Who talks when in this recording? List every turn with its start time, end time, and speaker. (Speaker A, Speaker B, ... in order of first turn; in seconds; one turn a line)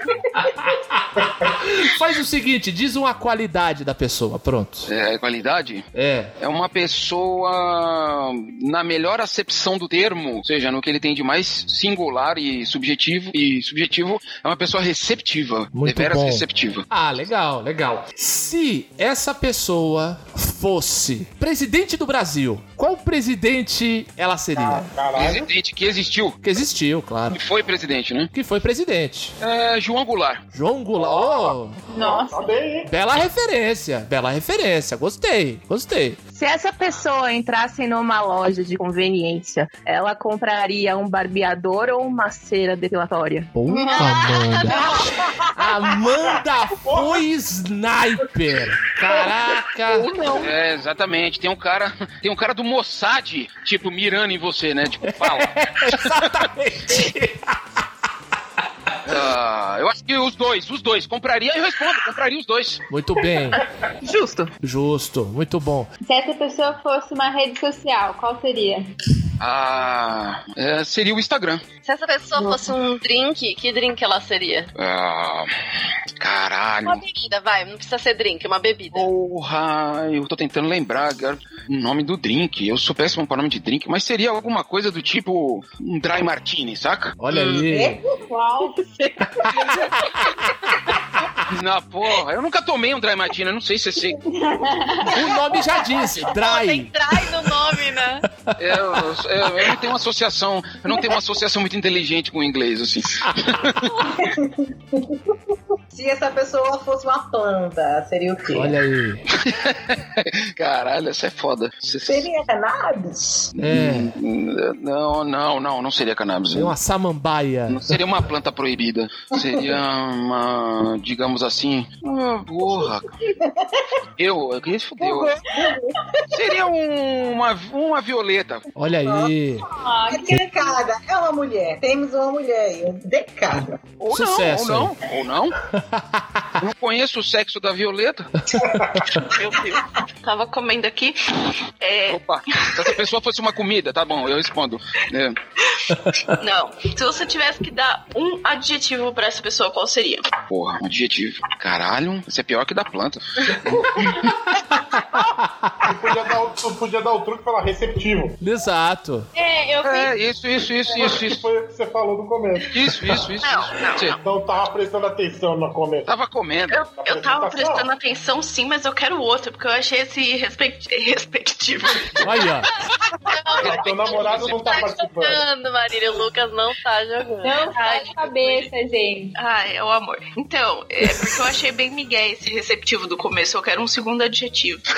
Speaker A: 0.3-4.9
Speaker B: 4.9-5.9
Speaker A: 5.9-6.3
Speaker B: 6.4-16.8
Speaker A: 15.7-24.9
Speaker C: 24.5-25.5
Speaker B: 25.1-26.4
Speaker A: 26.4-27.4
Speaker B: 27.3-28.3
Speaker A: 28.3-29.3
Speaker B: 29.4-30.4
Speaker A: 30.5-31.8
Speaker C: 31.0-32.9
Speaker D: 31.9-32.5
Speaker A: 32.9-36.2
Speaker E: 36.3-43.5
Speaker A: 43.5-50.1
Speaker F: 43.9-44.9
Speaker G: 45.0-45.3
Speaker C: 46.8-47.2
Speaker E: 49.9-50.5
Speaker B: 50.4-56.3
Speaker A: 55.0-57.6
Speaker B: 59.0-62.8
Speaker A: 62.9-63.6
Speaker E: 64.0-64.5
Speaker A: 64.6-65.9
Speaker D: 66.0-68.8
Speaker B: 69.4-71.6
Speaker F: 71.8-74.7
Speaker E: 72.4-72.6
Speaker B: 74.8-75.5
Speaker B: 76.2-77.0
Speaker F: 76.8-79.1
Speaker B: 78.9-87.2
Speaker A: 87.2-88.0
Speaker F: 87.3-87.6
Speaker G: 87.7-89.6
Speaker D: 88.3-88.8
Speaker B: 91.5-94.2
Speaker D: 94.4-95.1
Speaker A: 95.1-96.9
Speaker F: 96.3-98.2
Speaker A: 98.4-99.0
Speaker B: 98.6-103.9
Speaker G: 104.2-105.3
Speaker G: 105.9-108.8
Speaker A: 108.5-109.2
Speaker B: 109.3-112.3
Speaker G: 112.0-113.5
Speaker B: 113.6-116.7
Speaker A: 113.6-114.1
Speaker A: 116.5-118.0
Speaker B: 117.7-123.1
Speaker G: 123.4-123.8
Speaker B: 124.2-125.4
Speaker G: 125.0-126.5
Speaker B: 126.3-128.6
Speaker A: 128.8-129.7
Speaker G: 129.0-129.3
Speaker D: 129.7-130.8
Speaker G: 130.1-133.8
Speaker B: 134.0-135.5
Speaker A: 134.1-134.9
Speaker A: 135.7-136.5
Speaker B: 136.6-138.3
Speaker C: 138.5-139.2
Speaker H: 139.4-143.0
Speaker F: 139.4-139.7
Speaker B: 142.1-145.3
Speaker H: 146.4-150.3
Speaker B: 150.5-154.1
Speaker A: 154.6-155.9
Speaker C: 155.8-158.4
Speaker A: 158.4-159.3
Speaker D: 159.3-160.1
Speaker B: 159.8-161.4
Speaker C: 160.9-162.9
Speaker B: 162.7-164.2
Speaker H: 163.4-164.2
Speaker C: 164.2-166.1
Speaker B: 166.1-166.8
Speaker H: 166.7-172.4
Speaker C: 167.0-167.9
Speaker A: 172.2-172.7
Speaker F: 173.3-178.7
Speaker C: 173.6-175.4
Speaker B: 173.6-174.7
Speaker D: 177.4-179.3
Speaker H: 179.3-184.8